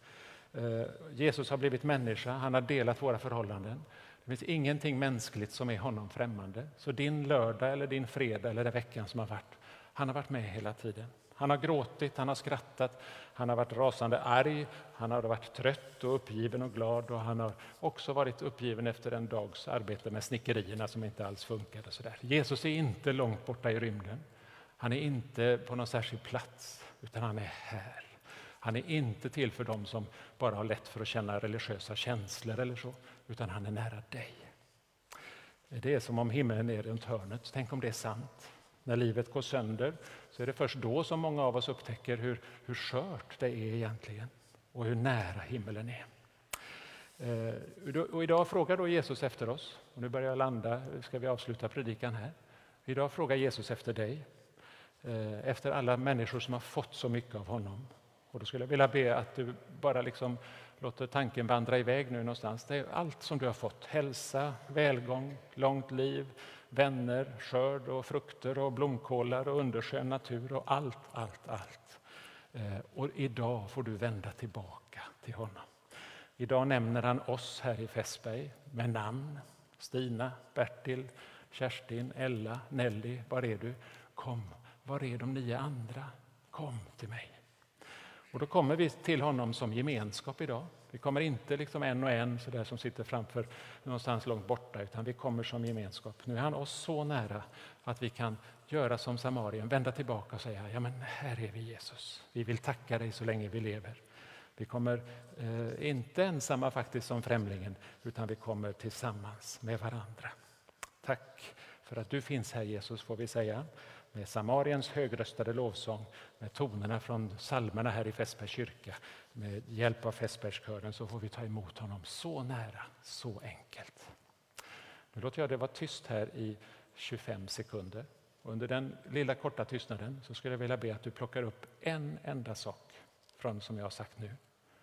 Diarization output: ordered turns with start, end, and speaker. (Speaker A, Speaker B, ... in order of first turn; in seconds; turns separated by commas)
Speaker A: 0.5-24.2, Speaker A: 24.8-34.5, Speaker A: 35.7-46.0, Speaker A: 47.2-52.3, Speaker A: 52.9-54.2, Speaker A: 55.0-72.0, Speaker A: 72.5-75.6, Speaker A: 76.4-87.3, Speaker A: 88.3-104.0, Speaker A: 104.6-110.3, Speaker A: 111.0-124.1, Speaker A: 125.1-134.4